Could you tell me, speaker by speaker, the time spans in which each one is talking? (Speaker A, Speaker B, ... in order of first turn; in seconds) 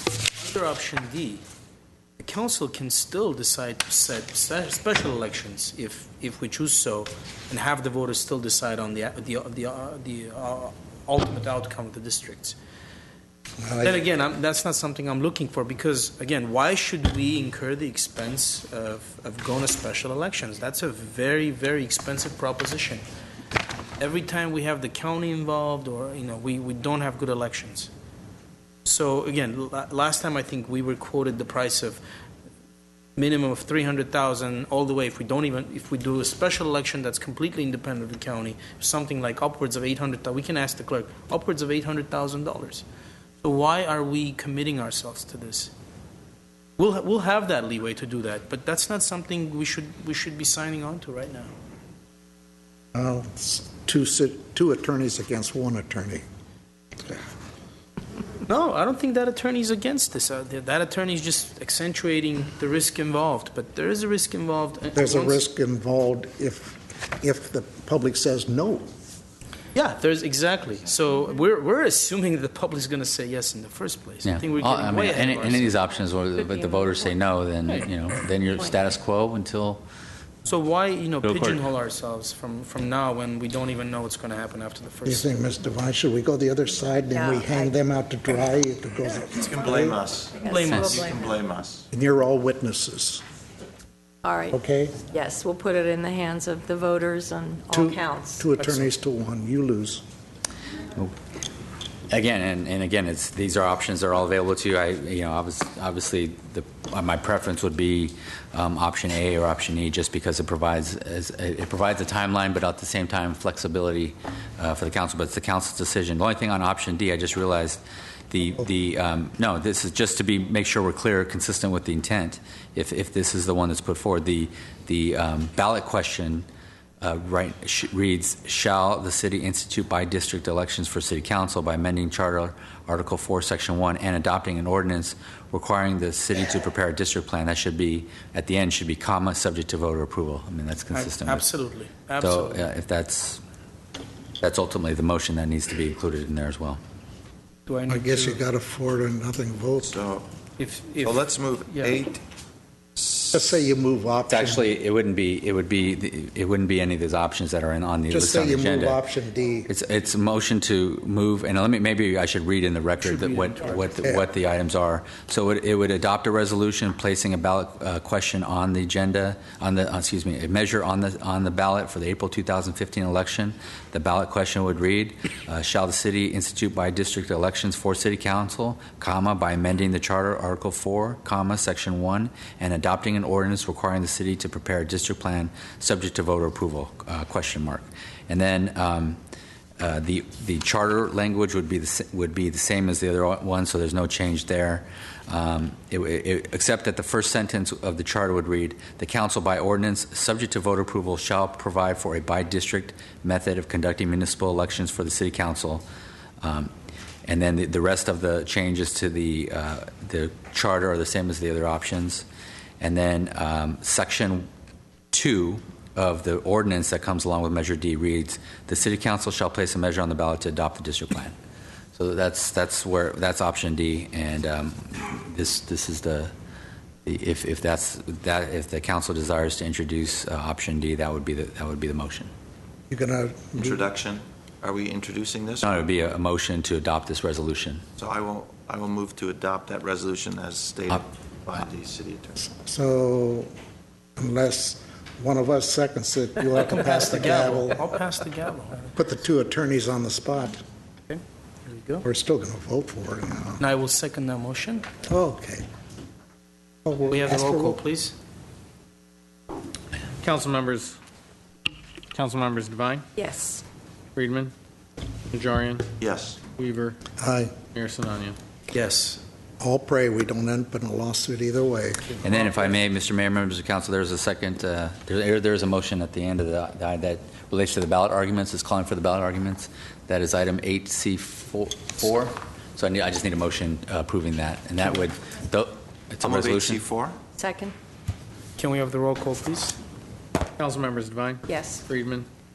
Speaker A: 0.4-1.4, 2.2-12.6, 13.8-23.0, 24.0-27.9, 28.9-32.0, 33.2-42.8, 43.4-45.7, 46.8-51.5, 58.5-65.4, 69.8-75.8, 80.5-85.3, 90.4-91.1, 98.6-98.9, 140.9-142.7, 147.7-148.4, 150.6-152.0, 163.0-163.9, 246.7-248.9, 251.1-252.1, 253.6-254.9, 257.1-258.2, 268.7-269.2, 288.6-289.8
Speaker B: 13.6-14.0, 53.0-56.2, 65.0-68.9, 85.0-90.0, 91.9-93.2, 94.5-95.0, 97.7-100.0, 147.9-150.0, 153.3-154.7, 158.1-159.7, 232.9-233.9, 242.4-243.5, 244.2-247.9, 248.9-250.6, 252.0-253.6, 255.1-255.7, 256.9-257.8, 267.2-267.5, 269.6-272.4
Speaker C: 74.2-79.8, 81.2-81.6, 102.1-126.5, 127.0-141.5, 142.2-143.4, 144.4-146.8, 154.3-159.0, 159.7-189.2, 189.8-205.8, 206.4-206.7, 207.3-212.3, 212.8-214.5, 215.1-221.3, 221.9-226.3, 227.1-232.3, 235.6-237.8, 272.2-286.8
Speaker D: 87.1-87.7, 90.3-91.3, 94.2-94.6, 95.1-98.5, 263.2-263.6, 287.4-287.8, 291.5-291.8
Speaker E: 89.4-91.9, 149.8-150.3, 151.0-152.2, 153.0-153.5, 233.6-235.8, 238.0-242.4, 266.0-266.4, 286.2-287.2
Speaker F: 260.2-261.0, 262.1-263.1, 264.2-264.5, 265.3-265.9, 266.6-267.0, 267.8-268.4, 290.6-292.3